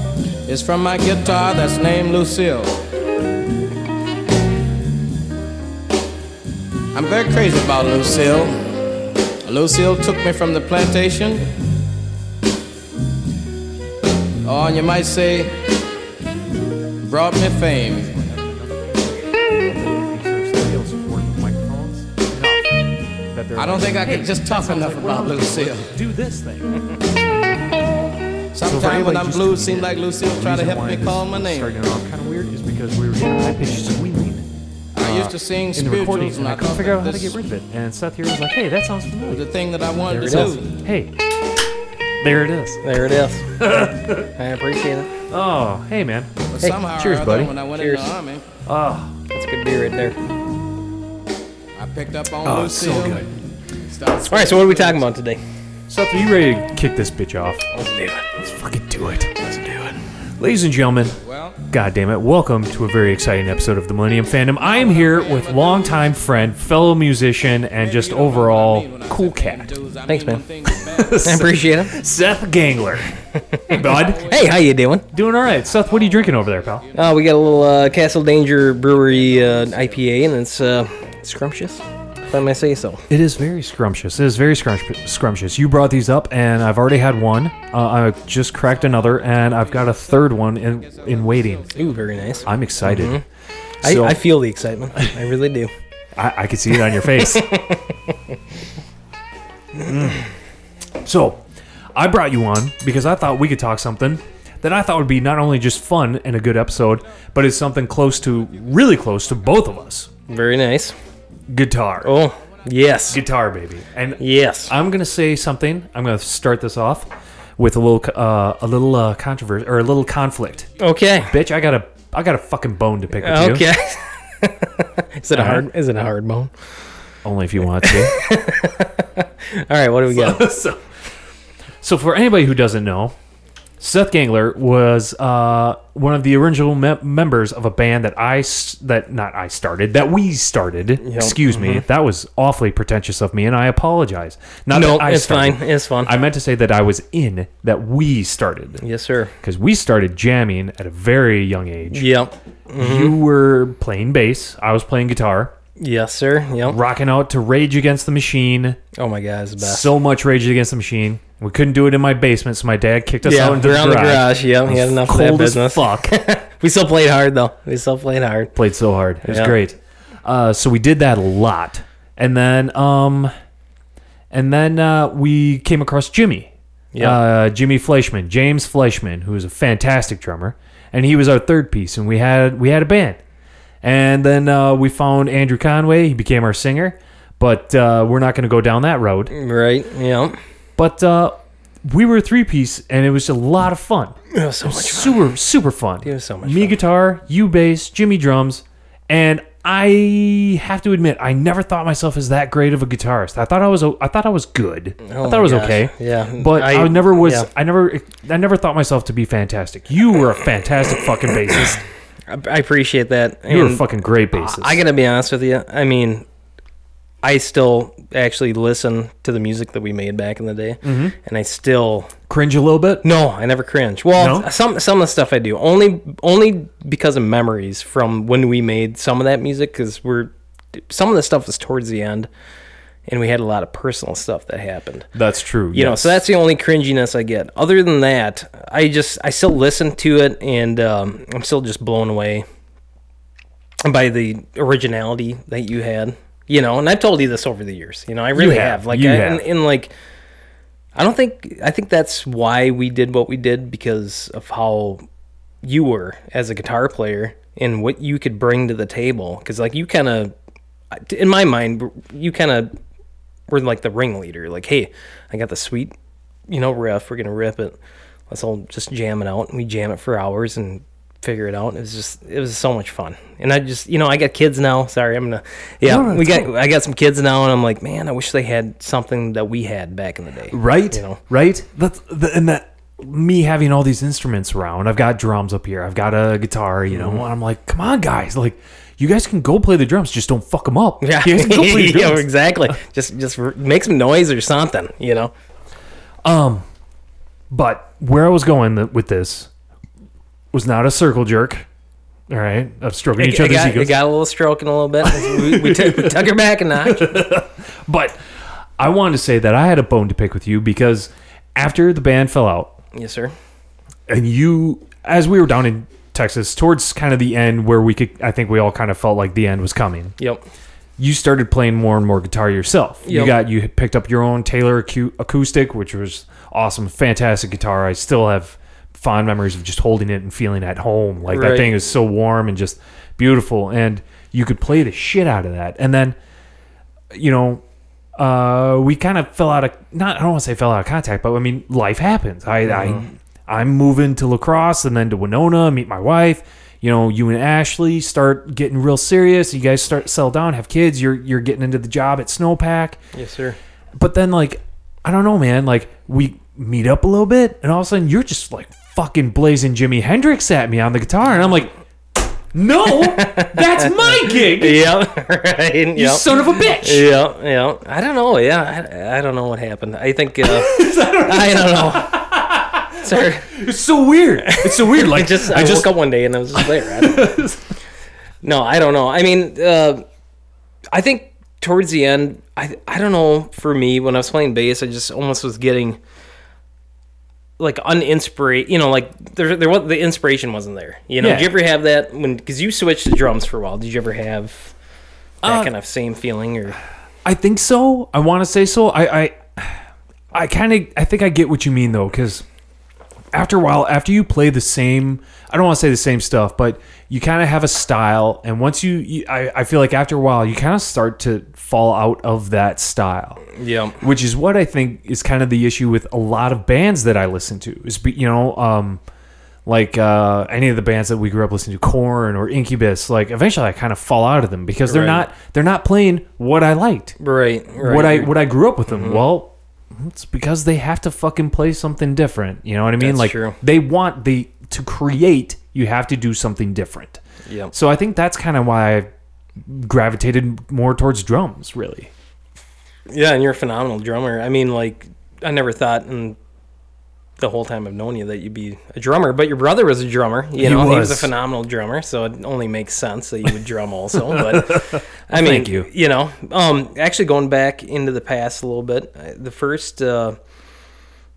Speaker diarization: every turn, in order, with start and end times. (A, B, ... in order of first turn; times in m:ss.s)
0:00.5-0:02.8 A
0:06.9-0:11.5 A
0:14.4-0:15.6 A
0:17.0-0:18.3 A
0:18.2-0:22.8 B
0:23.3-0:26.8 B
0:23.6-0:25.9 A
0:28.5-0:31.8 A
0:28.6-0:39.5 B
0:34.9-0:37.4 A
0:39.3-0:40.7 A
0:40.1-0:41.1 B
0:40.2-0:40.6 C
0:42.2-0:42.8 B
0:42.8-0:43.7 C
0:43.6-0:44.3 B
0:44.2-0:45.1 C
0:45.3-0:46.3 B
0:46.5-0:48.4 A
0:47.0-0:47.5 B
0:47.7-0:48.1 C
0:48.7-0:49.1 B
0:49.3-0:50.2 C
0:51.8-0:53.2 A
0:52.4-0:53.3 B
0:53.8-0:55.1 A
0:54.3-0:55.4 C
0:55.9-0:57.7 B
0:57.7-0:58.3 C
0:58.4-0:59.5 B
0:59.4-1:00.0 C
1:00.4-1:09.8 B
1:01.2-1:01.6 A
1:04.6-1:06.1 A
1:07.8-1:11.4 A
1:10.1-1:10.4 C
1:10.7-1:13.1 B
1:11.2-1:12.0 C
1:13.4-1:13.6 C
1:13.7-1:14.3 B
1:13.7-1:14.7 A
1:14.2-1:15.1 C
1:15.1-1:16.9 B
1:15.6-1:18.1 A
1:17.0-1:23.0 C
1:18.9-1:20.1 A
1:23.1-1:31.7 B
1:28.7-1:32.6 A
1:31.8-1:33.2 C
1:32.4-1:33.2 B
1:33.8-1:35.7 C
1:33.8-1:34.2 B
1:36.2-1:37.5 B
1:36.8-1:38.2 C
1:39.8-1:40.2 B
1:41.0-1:41.4 B
1:42.0-1:50.1 B
1:50.3-1:51.0 C
1:51.5-1:52.2 B
1:52.0-1:53.2 C
1:53.1-2:00.7 B
1:54.2-1:54.7 C
2:00.8-2:01.4 C
2:01.3-2:03.7 B
2:03.2-2:06.5 C
2:05.3-2:05.7 B
2:07.2-2:08.2 B
2:07.8-2:10.4 C
2:10.1-2:10.9 B
2:11.8-2:13.2 B
2:13.8-2:28.8 B
2:21.0-2:21.8 C
2:24.7-2:26.1 C
2:28.8-2:29.3 C
2:29.4-2:32.1 B
2:31.9-2:33.2 C
2:32.8-2:35.5 B
2:35.8-2:36.8 C
2:36.6-2:38.8 B
2:39.0-2:39.9 C
2:39.6-2:46.1 B
2:43.2-2:48.5 C
2:48.6-2:53.3 B
2:49.2-2:49.6 C
2:54.3-3:03.2 B
2:56.9-2:57.2 C
3:03.8-3:09.3 B
3:09.3-3:10.4 C
3:10.8-3:31.8 B
3:14.3-3:15.3 C
3:16.0-3:16.8 C
3:25.0-3:27.5 C
3:32.3-3:36.3 C
3:33.5-3:34.8 B
3:37.2-3:42.1 C
3:40.8-3:41.2 B
3:42.3-3:43.1 B
3:43.0-3:52.3 C
3:44.2-3:44.5 B
3:53.1-3:55.1 C
3:55.1-3:56.2 B
3:55.7-4:02.5 C
4:03.8-4:09.9 C
4:08.3-4:09.5 B
4:11.0-4:15.0 C
4:15.6-4:20.3 C
4:20.9-4:22.8 C
4:23.5-4:25.9 C
4:26.5-4:27.8 C
4:28.3-4:41.2 C
4:35.8-4:36.5 B
4:40.5-4:52.7 B
4:46.9-4:47.2 C
4:51.0-4:55.3 C
4:56.2-4:56.6 B
4:57.5-4:59.5 B
5:00.5-5:01.7 B
5:02.3-5:04.0 B
5:03.2-5:07.2 C
5:05.0-5:08.2 B
5:08.8-5:12.8 B
5:12.9-5:13.3 C
5:14.1-5:20.2 B
5:20.2-5:20.4 C
5:21.0-5:36.2 B
5:23.0-5:23.4 C
5:31.3-5:31.8 C
5:37.1-5:37.6 B
5:38.2-5:53.0 B
5:42.6-5:43.0 C
5:53.1-5:53.6 C
5:54.0-6:01.7 B
6:02.5-6:05.0 B
6:02.9-6:12.3 C
6:06.0-6:07.1 B
6:10.4-6:16.0 B
6:13.0-6:13.5 C
6:14.4-6:17.5 C
6:16.6-6:17.6 B
6:18.4-6:20.0 C
6:20.9-6:26.0 C
6:27.6-6:34.7 C
6:31.2-6:31.5 B
6:35.4-6:35.7 B
6:35.4-6:36.8 C
6:37.2-6:39.8 B
6:40.3-6:42.4 B
6:43.3-6:53.4 B
6:53.5-6:54.0 C
6:54.0-6:59.0 B
6:59.7-7:07.2 B
7:04.9-7:05.2 C
7:07.2-7:09.2 C
7:07.8-7:17.2 B
7:13.0-7:13.6 C
7:17.5-7:17.7 C
7:17.7-7:22.1 B
7:23.1-7:26.4 C
7:27.4-7:40.4 C
7:30.6-7:31.3 B
7:34.1-7:35.9 B